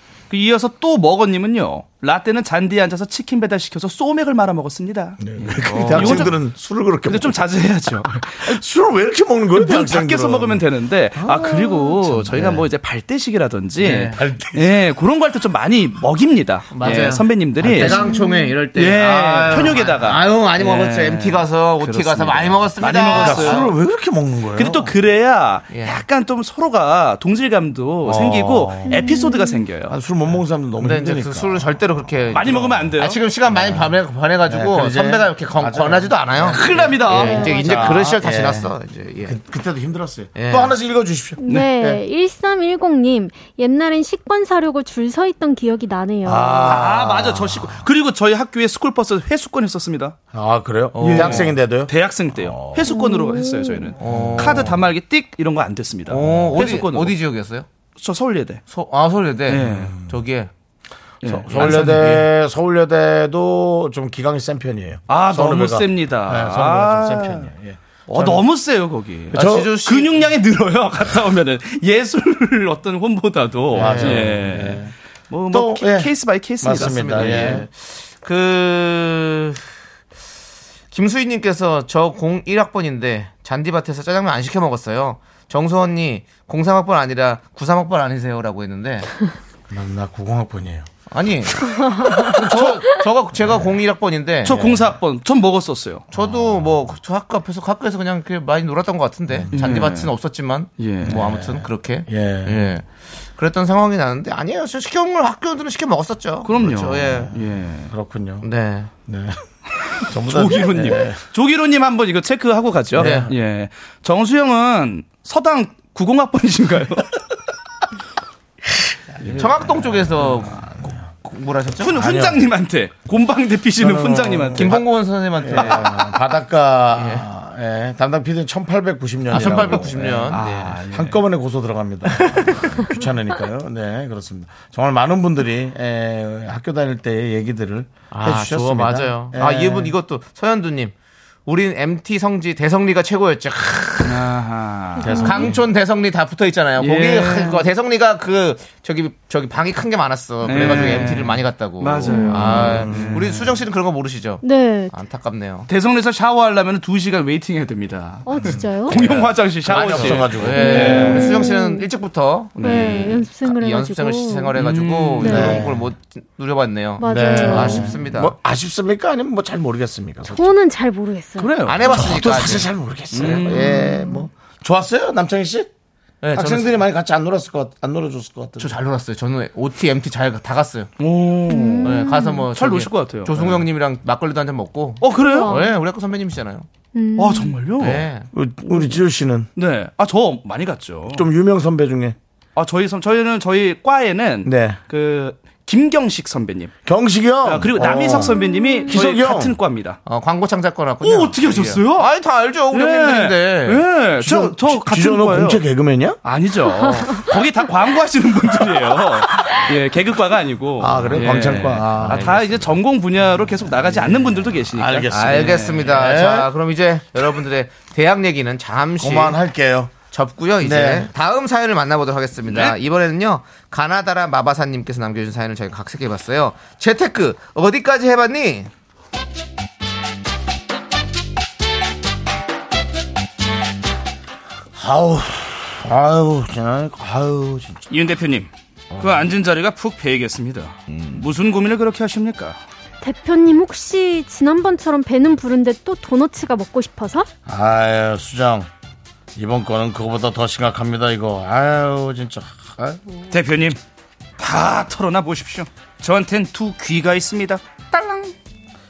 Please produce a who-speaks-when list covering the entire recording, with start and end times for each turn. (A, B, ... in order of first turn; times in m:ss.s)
0:00.3-0:06.4 A
0:05.2-0:07.4 B
0:05.6-0:06.3 C
0:07.1-0:08.6 A
0:08.4-0:10.6 B
0:09.5-0:18.0 A
0:11.2-0:12.6 B
0:13.8-0:14.2 C
0:14.1-0:14.8 B
0:16.7-0:23.7 C
0:17.6-0:18.0 B
0:17.9-0:18.6 D
0:18.7-0:23.7 A
0:22.8-0:24.9 B
0:24.6-0:30.0 A
0:25.7-0:26.0 C
0:28.0-0:29.0 B
0:28.8-0:29.7 D
0:29.9-0:31.7 B
0:30.8-0:39.4 C
0:32.3-0:32.9 B
0:32.3-0:33.2 A
0:33.5-0:38.7 B
0:36.5-0:38.0 A
0:37.2-0:37.7 D
0:39.2-0:42.0 B
0:40.4-0:40.8 C
0:41.4-0:46.8 D
0:41.4-0:41.7 A
0:46.2-0:47.9 B
0:46.6-0:50.2 A
0:50.3-0:52.9 B
0:51.0-0:51.5 C
0:51.0-0:57.2 A
0:52.8-0:53.9 D
0:54.0-0:54.8 C
0:54.0-0:54.8 B
0:56.1-0:57.7 C
0:56.2-0:56.7 B
0:58.0-0:58.6 A
0:58.7-1:00.5 C
0:59.5-0:59.9 A
0:59.6-1:00.0 B
1:01.2-1:02.2 A
1:01.2-1:08.4 B
1:01.5-1:02.3 C
1:05.1-1:07.5 A
1:08.1-1:17.6 A
1:09.3-1:09.8 B
1:09.4-1:10.3 C
1:13.7-1:14.9 B
1:13.8-1:14.4 C
1:15.5-1:17.7 B
1:16.7-1:19.6 C
1:20.9-1:29.1 C
1:29.7-1:30.9 B
1:31.1-1:34.6 C
1:31.8-1:32.3 D
1:34.4-1:36.1 A
1:34.5-1:34.9 B
1:36.1-1:42.8 C
1:36.2-1:36.7 B
1:39.3-1:39.7 B
1:39.5-1:40.1 A
1:40.8-1:41.2 A
1:41.0-1:42.7 B
1:43.4-1:47.3 C
1:46.4-1:47.9 A
1:47.0-1:48.5 B
1:48.4-1:48.9 C
1:49.1-1:51.2 B
1:50.3-1:57.1 A
1:53.0-1:53.3 B
1:53.0-1:53.3 C
1:59.2-2:00.7 B
1:59.3-1:59.6 A
1:59.4-2:02.2 C
2:01.8-2:04.8 A
2:01.9-2:02.4 B
2:03.8-2:04.8 B
2:04.6-2:06.1 C
2:05.4-2:20.0 B
2:05.5-2:05.9 A
2:07.0-2:07.3 C
2:09.3-2:10.6 C
2:09.4-2:11.2 A
2:12.1-2:12.8 A
2:18.1-2:20.9 C
2:21.5-2:24.3 C
2:24.0-2:25.2 A
2:25.0-2:25.6 D
2:25.0-2:25.6 B
2:25.2-2:35.7 C
2:26.8-2:27.7 A
2:30.4-2:33.6 A
2:30.6-2:31.1 B
2:32.0-2:32.8 D
2:32.5-2:33.3 B
2:34.4-2:35.0 D
2:35.7-2:41.3 A
2:38.2-2:39.0 D
2:38.9-2:41.1 B
2:39.7-2:48.3 C
2:40.5-2:41.9 D
2:42.6-2:44.6 D
2:42.6-2:43.2 A
2:44.6-2:45.4 A
2:45.2-2:45.7 D
2:45.2-2:45.9 B
2:47.0-2:48.0 D
2:47.0-2:50.5 B
2:50.2-2:51.6 D
2:51.4-2:51.9 A
2:51.6-2:53.6 C
2:51.8-2:55.7 B
2:53.1-2:54.0 A
2:53.8-2:54.2 D
2:56.2-2:56.8 C
2:56.4-2:58.8 B
2:58.6-3:00.9 C
3:01.0-3:03.4 A
3:01.5-3:02.5 D
3:01.8-3:06.7 C
3:05.0-3:05.6 A
3:05.2-3:05.7 D
3:06.9-3:07.7 D
3:07.2-3:08.1 A
3:07.8-3:08.3 C
3:08.3-3:09.5 B
3:09.6-3:11.3 A
3:11.1-3:12.2 B
3:12.6-3:16.7 A
3:14.4-3:14.8 B
3:16.9-3:19.6 B
3:17.4-3:20.0 A
3:18.2-3:19.0 D
3:20.1-3:23.8 C
3:21.0-3:22.1 A
3:22.7-3:25.6 A
3:24.2-3:26.2 B
3:26.2-3:35.9 A
3:26.8-3:27.2 D
3:30.8-3:32.8 B
3:32.1-3:32.3 C
3:33.8-3:36.5 B
3:35.1-3:39.4 C
3:39.0-3:40.0 B
3:40.1-3:48.7 C
3:40.6-3:41.1 B
3:42.5-3:42.8 A
3:54.8-3:57.8 B
3:57.9-4:02.6 A
3:58.9-3:59.3 B
4:03.0-4:07.3 D
4:07.5-4:08.7 B
4:09.4-4:13.2 B
4:13.3-4:13.8 A
4:14.4-4:18.3 A